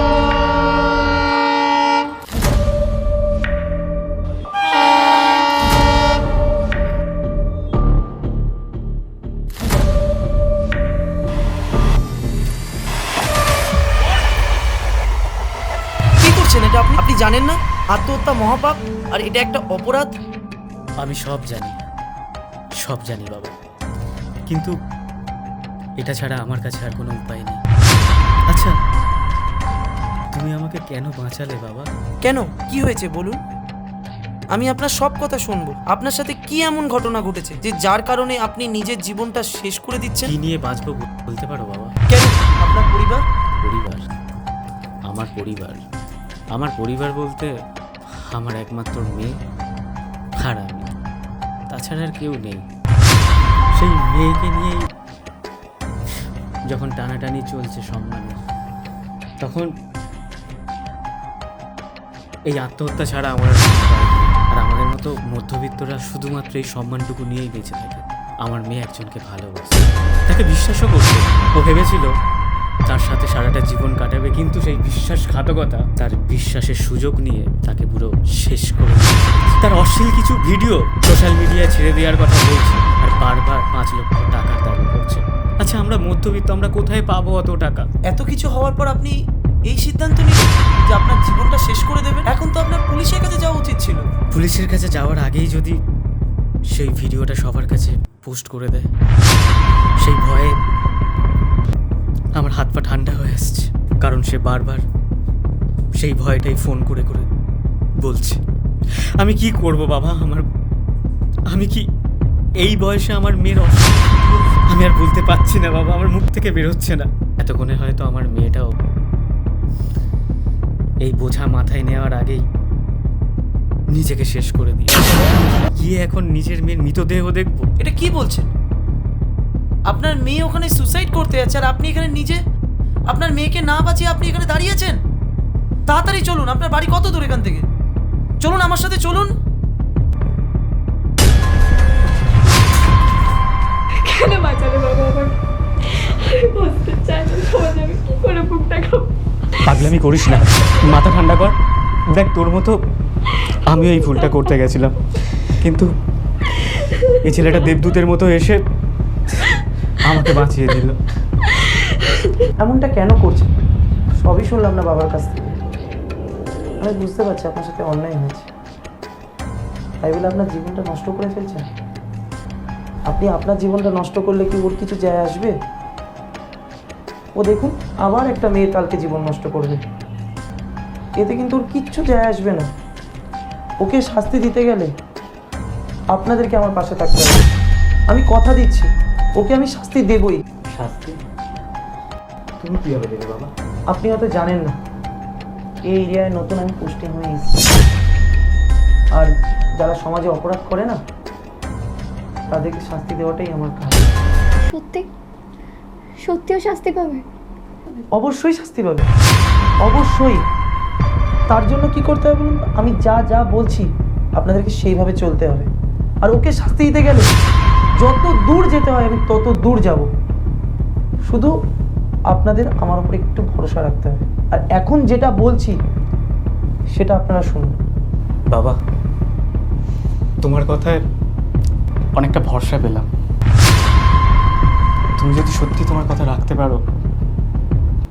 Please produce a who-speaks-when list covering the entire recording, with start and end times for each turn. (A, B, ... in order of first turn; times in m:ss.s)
0:16.2-0:20.2 A
0:21.0-0:21.8 B
0:22.8-0:23.6 B
0:24.5-0:24.8 B
0:26.0-0:27.6 B
0:28.5-0:28.8 B
0:30.3-0:31.9 B
0:32.2-0:33.4 A
0:34.5-0:40.4 A
0:40.2-0:42.0 B
0:42.1-0:43.2 A
0:43.5-0:44.0 B
0:45.1-0:45.8 B
0:46.5-0:47.5 B
0:48.1-0:49.4 B
0:50.4-0:50.9 B
0:51.7-0:52.7 B
0:53.7-0:54.9 B
0:56.7-0:58.4 B
0:59.4-0:59.7 B
1:02.5-1:12.1 B
1:12.9-1:27.9 B
1:28.1-1:34.1 A
1:34.3-1:35.8 B
1:36.7-1:38.9 B
1:40.0-1:40.6 B
1:42.4-1:44.8 B
1:46.0-1:47.3 B
1:48.0-1:48.4 B
1:49.2-1:50.5 B
1:51.5-1:51.9 B
1:52.6-1:58.8 B
2:01.0-2:02.4 B
2:03.9-2:07.7 B
2:07.8-2:08.5 A
2:09.9-2:12.4 A
2:13.1-2:15.0 A
2:15.9-2:17.7 A
2:18.4-2:19.4 A
2:23.9-2:29.8 C
2:29.6-2:31.6 B
2:32.1-2:32.8 B
2:33.7-2:35.9 B
2:34.0-2:34.3 C
2:37.1-2:38.6 B
2:40.0-2:41.0 B
2:42.6-2:43.5 A
2:44.2-2:45.6 A
2:46.8-2:48.5 A
2:50.0-2:51.7 A
2:53.1-2:55.6 A
2:57.4-2:59.8 A
3:01.2-3:02.7 A
3:03.8-3:04.9 A
3:06.1-3:07.5 A
3:08.1-3:10.4 A
3:10.7-3:11.2 B
3:12.6-3:13.5 B
3:13.9-3:14.8 A
3:15.8-3:17.6 A
3:19.1-3:21.0 A
3:22.5-3:24.1 A
3:24.7-3:25.1 C
3:26.2-3:27.3 C
3:28.1-3:29.1 A
3:29.8-3:30.4 A
3:31.5-3:35.7 A
3:36.2-3:37.4 A
3:38.0-3:40.1 A
3:42.3-3:45.8 A
3:46.9-3:47.8 A
3:48.5-3:48.8 B
3:50.4-3:51.0 B
3:52.2-3:53.1 B
3:55.2-3:56.8 B